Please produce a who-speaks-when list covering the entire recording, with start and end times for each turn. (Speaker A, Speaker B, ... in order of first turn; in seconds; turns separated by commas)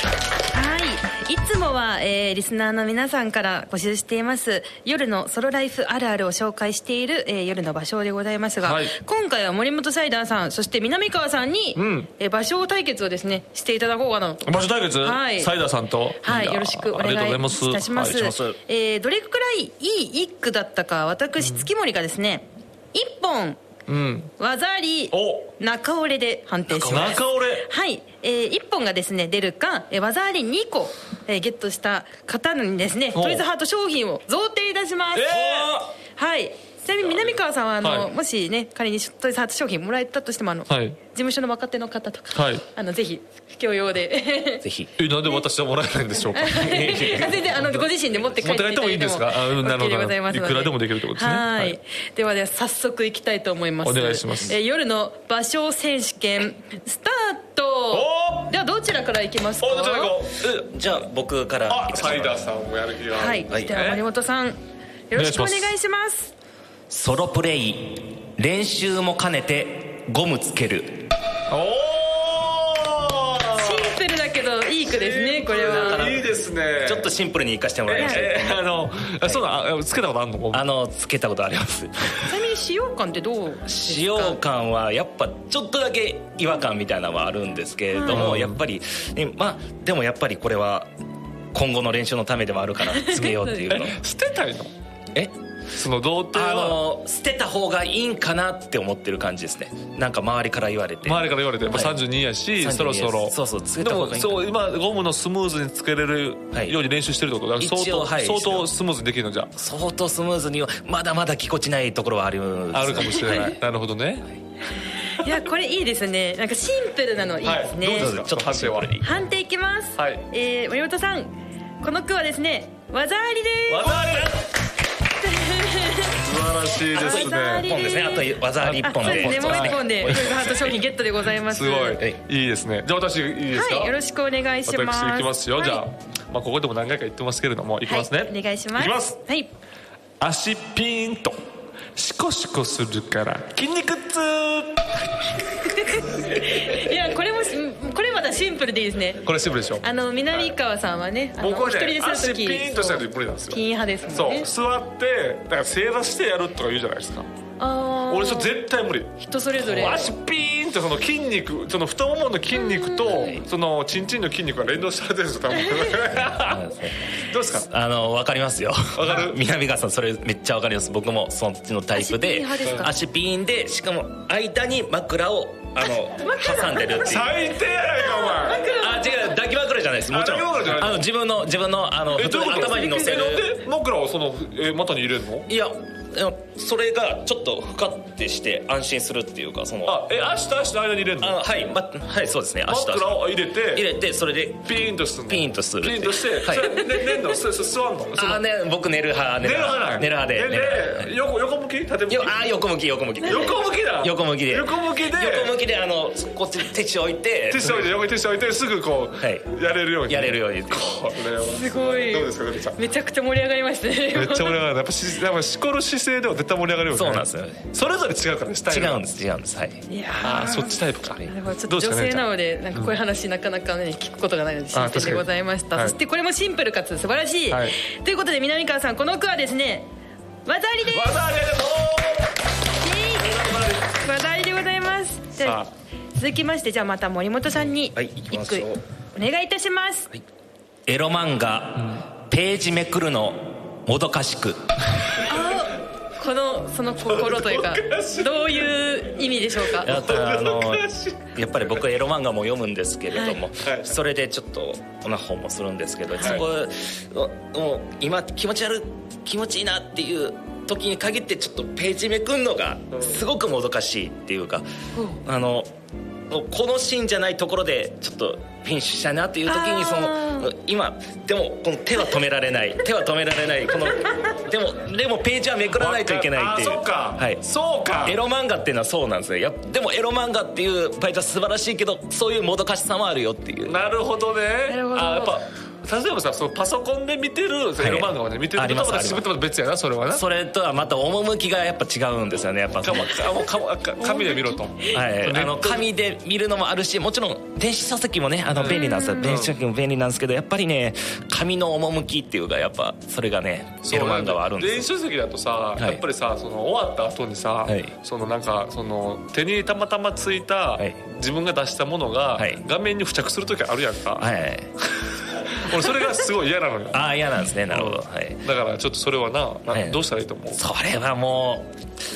Speaker A: 0.5-15.5, Speaker B: 8.6-9.0, Speaker B: 11.8-12.1, Speaker B: 14.4-18.4, Speaker A: 16.2-23.6, Speaker C: 18.1-18.6, Speaker B: 21.4-21.7, Speaker B: 23.9-24.3, Speaker A: 24.4-35.4, Speaker B: 25.1-25.5, Speaker C: 26.7-27.2, Speaker B: 26.9-27.7, Speaker B: 33.1-33.4, Speaker B: 35.1-35.8, Speaker C: 35.3-35.9, Speaker A: 36.2-44.6, Speaker B: 37.8-38.1, Speaker B: 40.7-41.0, Speaker B: 42.3-42.6, Speaker C: 44.6-44.9, Speaker B: 45.0-51.8, Speaker A: 46.3-60.1, Speaker C: 46.5-47.4, Speaker B: 53.8-54.5, Speaker B: 57.9-58.5, Speaker B: 59.6-60.7, Speaker C: 60.4-62.4, Speaker B: 61.7-64.0, Speaker A: 63.1-64.6, Speaker A: 65.1-66.3, Speaker B: 65.1-65.7, Speaker C: 66.9-71.1, Speaker B: 71.5-74.0, Speaker A: 73.5-76.1, Speaker B: 74.8-77.1, Speaker C: 75.6-78.7, Speaker B: 77.9-80.7, Speaker C: 80.5-82.3, Speaker A: 82.3-84.4, Speaker C: 83.7-90.9, Speaker A: 87.9-88.2, Speaker B: 88.1-88.6, Speaker C: 91.5-94.0, Speaker A: 92.9-93.7, Speaker B: 93.7-94.7, Speaker B: 95.7-96.8, Speaker C: 96.3-102.0, Speaker B: 101.0-109.5, Speaker C: 102.6-104.5, Speaker C: 106.5-106.8, Speaker C: 107.6-108.7, Speaker C: 109.5-113.5, Speaker B: 112.7-114.3, Speaker A: 113.1-113.5, Speaker A: 115.0-118.1, Speaker B: 117.4-118.9, Speaker C: 117.9-119.2, Speaker A: 119.0-124.0, Speaker B: 120.0-120.2, Speaker B: 123.7-124.5, Speaker C: 123.9-124.3, Speaker A: 125.2-126.2, Speaker B: 126.1-127.7, Speaker C: 126.9-130.8, Speaker A: 126.9-132.0, Speaker B: 128.6-130.2, Speaker B: 131.5-133.9, Speaker A: 133.5-135.8, Speaker B: 134.7-139.2, Speaker A: 137.9-139.5, Speaker B: 140.2-141.4, Speaker B: 142.0-145.0, Speaker A: 145.6-149.2, Speaker B: 149.2-150.5, Speaker A: 149.8-154.5, Speaker B: 151.4-157.3, Speaker A: 157.6-158.5, Speaker B: 158.1-167.7, Speaker A: 159.2-160.1, Speaker A: 162.6-163.0, Speaker C: 163.1-163.4, Speaker C: 166.2-167.1, Speaker C: 167.7-177.4, Speaker B: 168.9-169.4, Speaker A: 171.9-172.9, Speaker A: 176.2-177.2, Speaker B: 177.0-178.8, Speaker A: 177.9-179.3, Speaker C: 178.8-183.6, Speaker B: 180.1-181.1, Speaker B: 182.1-185.5, Speaker A: 182.7-183.1, Speaker C: 185.5-190.0, Speaker B: 189.8-191.4, Speaker C: 191.2-193.2, Speaker B: 192.7-193.9, Speaker C: 193.7-194.7, Speaker B: 194.7-198.4, Speaker C: 195.3-196.9, Speaker C: 198.1-201.1, Speaker B: 199.4-202.4, Speaker C: 202.1-207.9, Speaker B: 203.2-205.6, Speaker B: 207.5-212.8, Speaker C: 209.2-209.5, Speaker C: 210.1-210.9, Speaker A: 211.4-214.6, Speaker B: 214.1-219.0, Speaker C: 216.9-217.7, Speaker C: 218.7-219.8, Speaker A: 219.9-229.9, Speaker B: 220.2-222.9, Speaker B: 224.7-225.9, Speaker A: 230.4-231.2, Speaker B: 230.9-232.3, Speaker A: 232.8-235.6, Speaker B: 233.2-233.9, Speaker B: 235.4-235.7, Speaker A: 236.2-240.1, Speaker C: 237.9-238.8, Speaker C: 240.9-244.6, Speaker A: 245.3-250.0, Speaker B: 247.0-248.7, Speaker B: 249.7-251.8, Speaker C: 249.8-264.7, Speaker A: 253.1-253.4, Speaker B: 253.6-253.9, Speaker A: 256.2-256.4, Speaker B: 262.9-263.2, Speaker A: 264.9-265.2, Speaker C: 265.2-265.7, Speaker C: 266.3-277.4, Speaker A: 269.5-270.5, Speaker B: 275.8-278.2, Speaker C: 278.0-283.8, Speaker B: 283.6-290.2, Speaker A: 284.7-285.4, Speaker C: 287.8-289.3, Speaker C: 290.1-293.2, Speaker B: 292.8-295.9, Speaker A: 294.0-294.9, Speaker C: 294.9-304.9, Speaker B: 298.6-299.6, Speaker A: 298.7-299.3, Speaker B: 303.9-314.3, Speaker C: 305.8-306.0, Speaker C: 307.7-307.9, Speaker C: 312.4-312.6, Speaker C: 314.2-314.7, Speaker B: 315.0-317.0, Speaker C: 316.9-318.4, Speaker B: 317.7-320.6, Speaker C: 319.7-320.0, Speaker C: 320.6-321.7